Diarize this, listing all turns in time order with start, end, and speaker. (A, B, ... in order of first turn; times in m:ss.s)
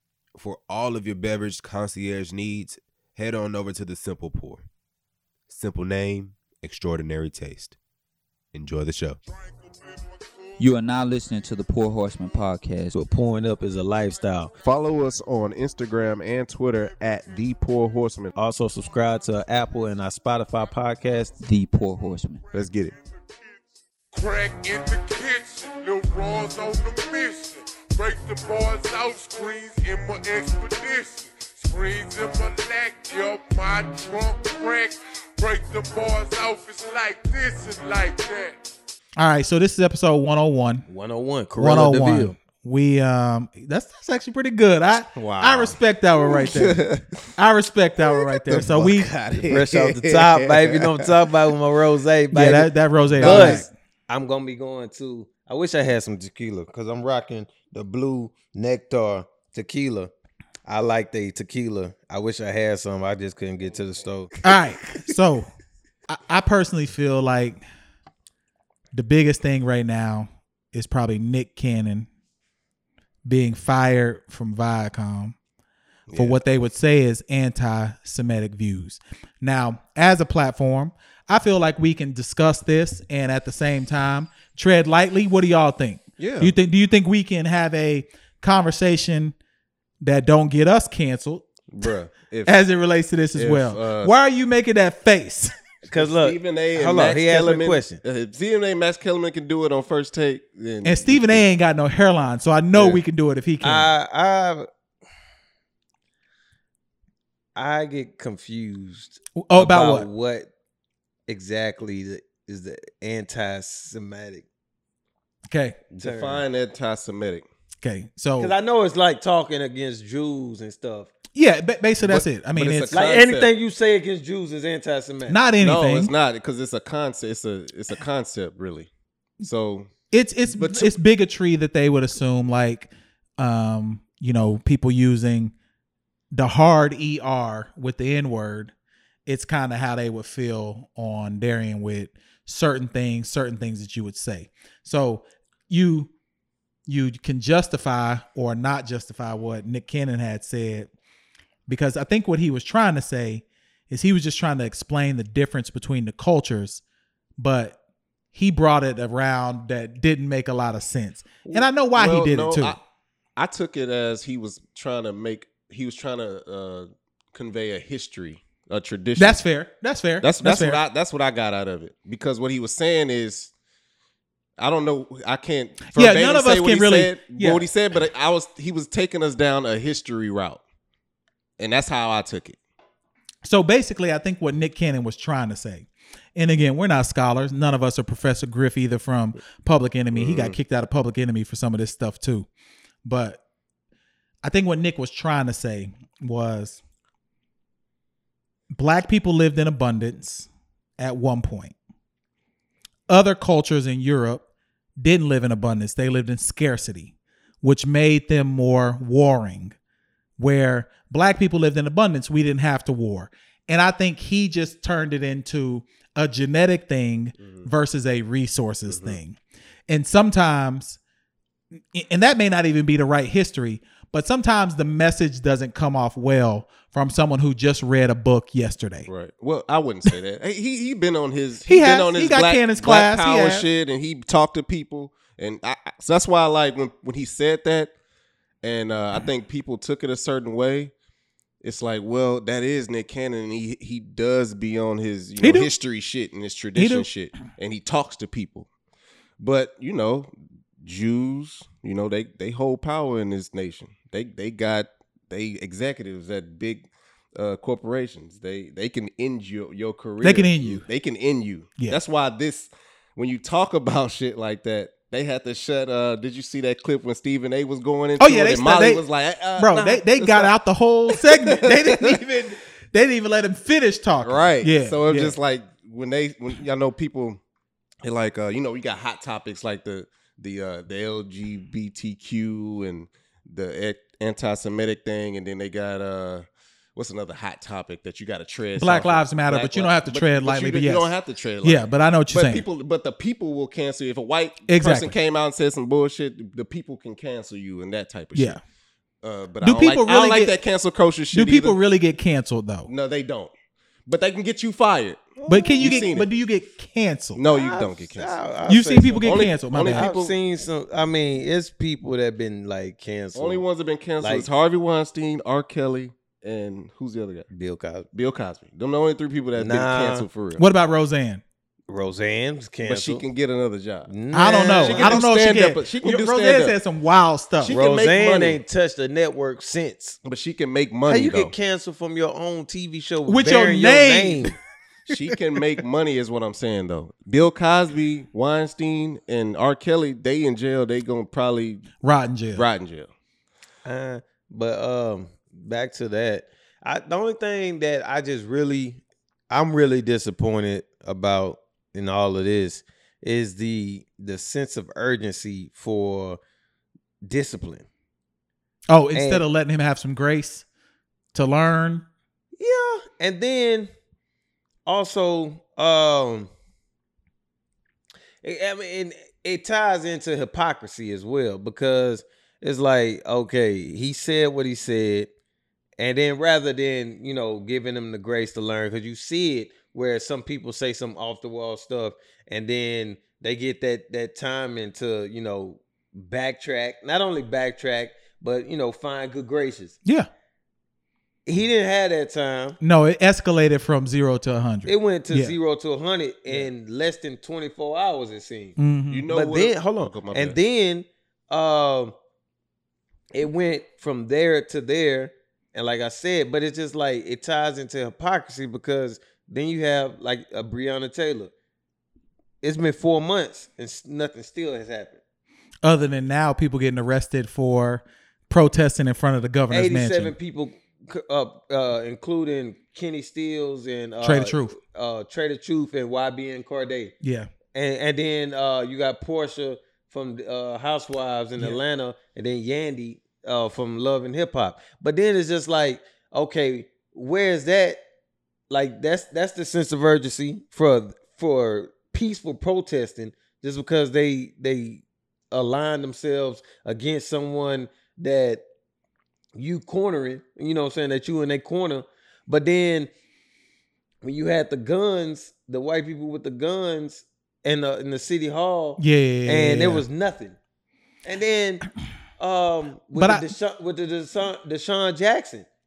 0:00.3-0:04.6 A
0:05.5-0:07.8 A
0:08.5-0:09.2 A
0:10.6-0:13.0 B
0:12.9-0:14.5 C
0:14.6-0:18.3 D
0:18.4-0:21.3 C
0:21.4-0:22.4 B
0:22.5-0:22.9 D
0:24.1-0:38.6 E
0:39.2-0:40.8 F
0:40.9-0:42.4 C
0:41.6-0:46.8 F
0:45.2-0:47.2 D
0:47.4-0:49.1 F
0:48.0-0:50.8 D
0:49.3-1:00.1 C
0:52.3-0:53.7 F
0:53.2-0:53.7 D
1:00.6-1:04.4 C
1:04.4-1:05.5 F
1:06.1-1:07.6 F
1:08.9-1:12.1 F
1:13.2-1:15.3 F
1:16.1-1:16.4 D
1:16.1-1:29.3 F
1:26.2-1:26.5 D
1:30.0-1:31.4 F
1:31.7-1:32.6 D
1:31.8-1:32.1 C
1:32.4-1:35.5 F
1:33.3-1:34.1 D
1:35.8-1:38.0 C
1:35.9-1:41.4 D
1:40.8-1:43.9 F
1:43.6-1:44.7 C
1:47.6-1:50.5 C
1:49.4-1:50.0 F
1:51.3-1:54.4 C
1:55.5-1:55.8 F
1:56.0-1:57.4 D
1:56.0-1:56.4 C
1:57.8-1:58.5 F
1:58.4-2:01.1 C
2:01.3-2:03.0 F
2:02.0-2:03.5 D
2:02.9-2:05.4 C
2:05.3-2:06.1 F
2:05.6-2:08.9 D
2:09.4-2:09.9 D
2:10.1-2:15.5 F
2:10.5-2:11.0 D
2:16.3-2:18.7 F
2:19.2-2:26.1 F
2:26.9-2:30.9 F
2:31.7-2:36.8 F
2:37.4-2:37.8 F
2:38.3-2:42.8 F
2:41.5-2:42.8 D
2:43.4-2:49.4 D
2:49.2-2:50.8 F
2:50.2-2:53.5 D
2:54.6-3:00.6 D
2:55.9-2:57.7 F
3:01.6-3:02.6 D
3:03.4-3:12.5 F
3:10.1-3:10.6 D
3:13.0-3:13.4 F
3:14.4-3:16.8 F
3:18.7-3:20.5 F
3:21.0-3:21.7 F
3:23.1-3:24.4 F
3:25.0-3:29.7 F
3:30.4-3:39.4 F
3:37.4-3:37.7 D
3:38.9-3:39.2 D
3:39.9-3:41.0 F
3:41.9-3:49.1 F
3:49.1-3:57.9 D
3:51.6-3:53.6 F
3:58.6-4:00.9 D
4:01.6-4:08.7 D
4:05.4-4:05.7 F
4:06.8-4:07.1 F
4:09.4-4:10.3 D
4:10.8-4:30.5 D
4:20.2-4:20.8 F
4:28.2-4:29.0 F
4:29.6-4:35.3 F
4:31.1-4:32.2 D
4:34.2-4:37.4 D
4:38.0-4:46.4 D
4:47.0-4:58.6 D
4:48.8-4:52.6 F
4:54.7-4:55.1 F
4:58.3-4:58.6 F
4:59.2-5:01.8 D
4:59.6-5:00.5 F
5:01.3-5:02.9 F
5:02.9-5:03.5 D
5:04.0-5:06.3 D
5:05.5-5:07.4 F
5:07.4-5:08.3 D
5:07.5-5:13.6 C
5:08.7-5:10.1 F
5:09.2-5:10.3 D
5:13.3-5:17.4 D
5:14.2-5:14.5 C
5:17.5-5:18.1 C
5:18.1-5:20.6 D
5:19.6-5:20.3 C
5:20.6-5:21.4 F
5:21.9-5:23.2 C
5:22.8-5:24.1 D
5:24.1-5:25.2 C
5:24.3-5:27.8 F
5:24.7-5:26.8 D
5:27.6-5:28.6 D
5:27.7-5:30.2 C
5:30.2-5:31.5 D
5:31.1-5:34.6 C
5:33.2-5:34.5 F
5:35.1-5:41.9 D
5:42.0-5:42.6 F
5:42.5-5:43.1 D
5:43.8-5:56.4 C
5:57.2-5:57.8 C
5:58.9-6:00.6 F
5:59.1-5:59.4 C
6:01.3-6:02.0 F
6:02.6-6:03.9 C
6:04.8-6:06.5 C
6:08.4-6:15.3 C
6:16.0-6:30.0 C
6:31.4-6:32.8 C
6:32.8-6:35.6 F
6:34.8-6:38.8 C
6:38.8-6:39.2 F
6:39.1-6:40.6 D
6:39.3-6:42.1 C
6:43.3-6:51.5 C
6:52.6-6:55.2 C
6:55.8-7:00.3 F
6:59.7-7:07.1 C
7:04.2-7:04.7 F
7:07.2-7:07.5 F
7:07.7-7:18.0 C
7:18.7-7:28.6 C
7:29.5-7:33.1 C
7:34.2-7:40.6 C
7:39.0-7:40.0 F
7:41.2-7:41.9 C
7:42.4-7:45.6 C
7:43.1-7:43.5 F